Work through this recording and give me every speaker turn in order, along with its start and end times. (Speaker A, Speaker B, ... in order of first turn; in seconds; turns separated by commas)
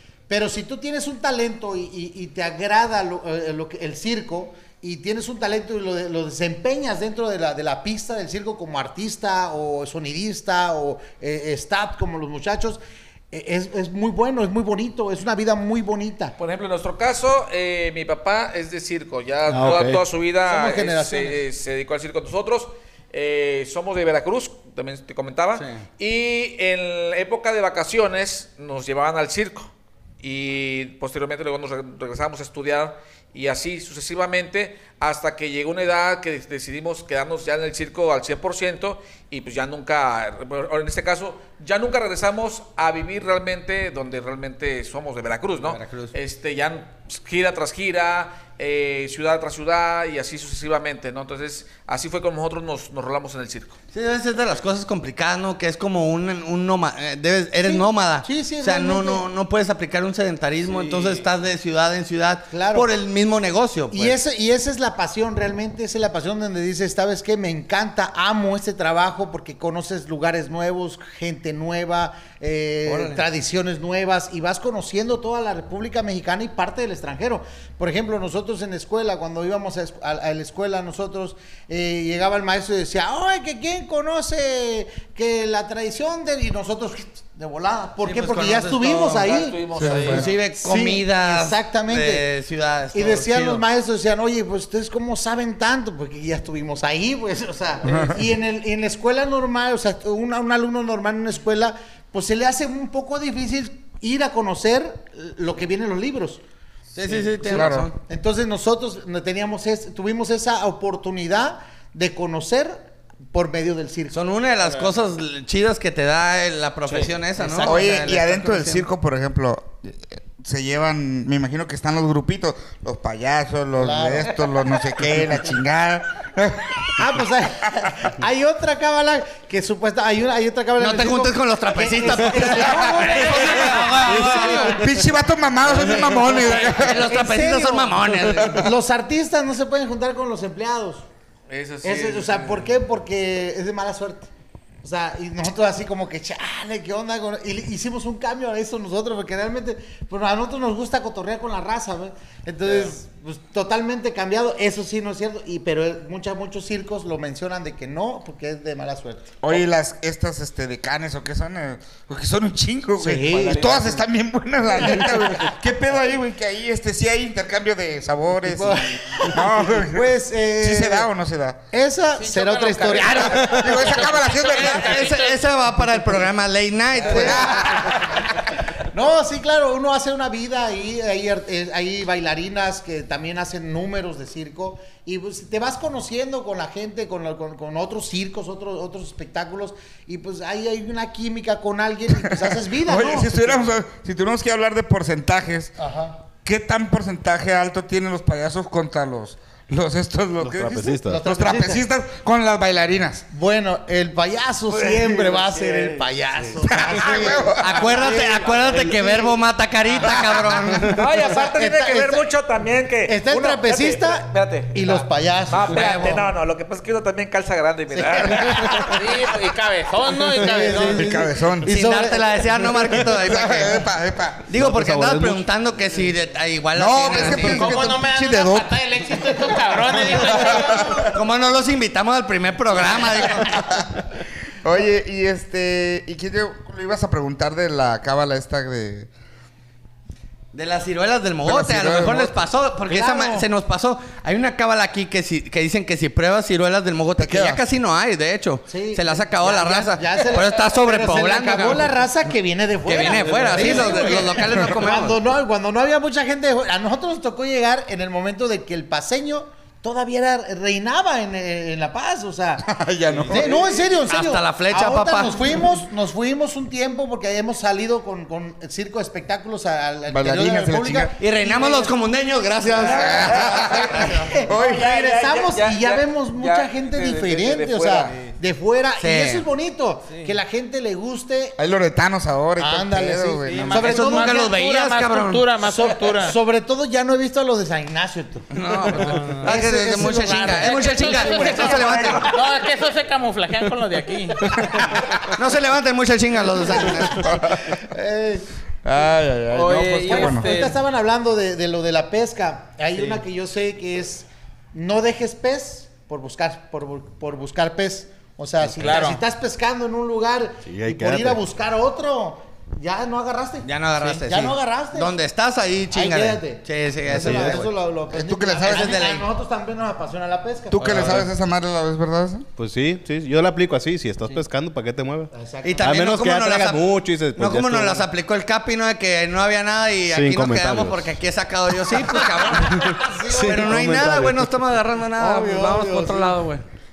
Speaker A: 0.3-16.3, Speaker B: 16.4-53.8, Speaker C: 19.4-20.0, Speaker A: 20.4-21.4, Speaker D: 25.5-25.8, Speaker D: 45.6-46.1, Speaker D: 53.9-64.2, Speaker A: 57.6-59.2, Speaker E: 60.7-61.2, Speaker A: 62.5-62.9, Speaker A: 63.9-92.3, Speaker D: 72.8-73.2, Speaker D: 88.0-89.3, Speaker B: 89.2-90.4, Speaker F: 89.7-90.2, Speaker D: 90.0-93.6, Speaker A: 92.9-106.4, Speaker F: 97.8-98.2, Speaker D: 106.9-108.0, Speaker A: 107.5-114.2, Speaker F: 107.5-107.9, Speaker D: 114.1-118.8, Speaker A: 116.9-118.2, Speaker F: 117.6-127.0, Speaker A: 123.8-124.4, Speaker A: 127.0-134.9, Speaker D: 130.8-134.8, Speaker F: 132.3-133.2, Speaker F: 134.2-137.1, Speaker D: 135.7-138.7, Speaker A: 136.3-141.0, Speaker B: 141.5-142.7, Speaker A: 141.8-144.3, Speaker A: 144.8-159.4, Speaker F: 159.4-171.6, Speaker A: 162.9-163.8, Speaker B: 163.3-164.1, Speaker A: 164.8-165.1, Speaker A: 168.5-171.1, Speaker A: 171.7-173.8, Speaker E: 172.2-175.4, Speaker F: 173.1-175.0, Speaker D: 174.4-177.7, Speaker A: 177.0-178.2, Speaker F: 177.1-178.0, Speaker A: 178.9-193.5, Speaker F: 192.2-195.7, Speaker A: 195.8-196.2, Speaker F: 196.4-203.2, Speaker C: 200.4-201.2, Speaker A: 201.1-201.8, Speaker A: 203.3-209.4, Speaker B: 204.7-206.6, Speaker F: 206.6-208.1, Speaker D: 207.6-211.0, Speaker F: 210.0-210.8, Speaker B: 210.9-219.4, Speaker A: 211.2-212.3, Speaker A: 213.0-216.2, Speaker D: 215.7-216.2, Speaker A: 217.9-218.9, Speaker E: 218.8-221.1, Speaker A: 220.4-222.6, Speaker F: 220.8-221.7, Speaker D: 221.7-223.9, Speaker F: 222.9-224.4, Speaker D: 224.5-227.7, Speaker C: 224.5-225.5, Speaker F: 226.7-231.1, Speaker E: 227.1-231.1, Speaker D: 231.1-233.6, Speaker F: 233.4-233.9, Speaker F: 234.6-239.1, Speaker D: 240.5-251.9, Speaker F: 241.4-242.4, Speaker A: 242.9-243.5, Speaker F: 247.2-247.6, Speaker A: 248.7-262.6, Speaker D: 252.8-255.2, Speaker C: 253.4-253.8, Speaker F: 262.6-263.7, Speaker A: 263.2-271.9, Speaker D: 263.3-265.4, Speaker F: 270.1-271.1, Speaker D: 271.2-274.3, Speaker A: 272.6-281.6, Speaker F: 272.9-274.9, Speaker B: 273.0-278.3, Speaker D: 279.0-279.4, Speaker E: 280.1-280.3, Speaker F: 281.6-283.8, Speaker A: 282.6-284.9, Speaker E: 283.4-286.4, Speaker D: 283.7-285.5, Speaker A: 285.6-292.3, Speaker D: 288.5-292.3, Speaker E: 290.6-294.5, Speaker F: 291.6-292.4, Speaker F: 294.5-295.1, Speaker A: 294.8-295.1, Speaker D: 295.3-297.3, Speaker A: 296.4-298.4, Speaker F: 297.1-297.7, Speaker F: 298.8-300.5, Speaker E: 299.5-300.8, Speaker A: 300.0-315.1, Speaker E: 308.8-309.2, Speaker C: 310.6-311.4, Speaker D: 313.6-317.7, Speaker A: 315.9-321.2, Speaker C: 317.1-317.6, Speaker F: 318.1-319.0, Speaker D: 318.6-319.2, Speaker F: 320.7-322.5, Speaker C: 320.9-321.3, Speaker C: 322.6-328.1, Speaker A: 325.3-326.1, Speaker D: 325.6-336.6, Speaker C: 330.1-331.2, Speaker C: 332.1-334.6, Speaker A: 332.8-333.8, Speaker A: 335.1-336.4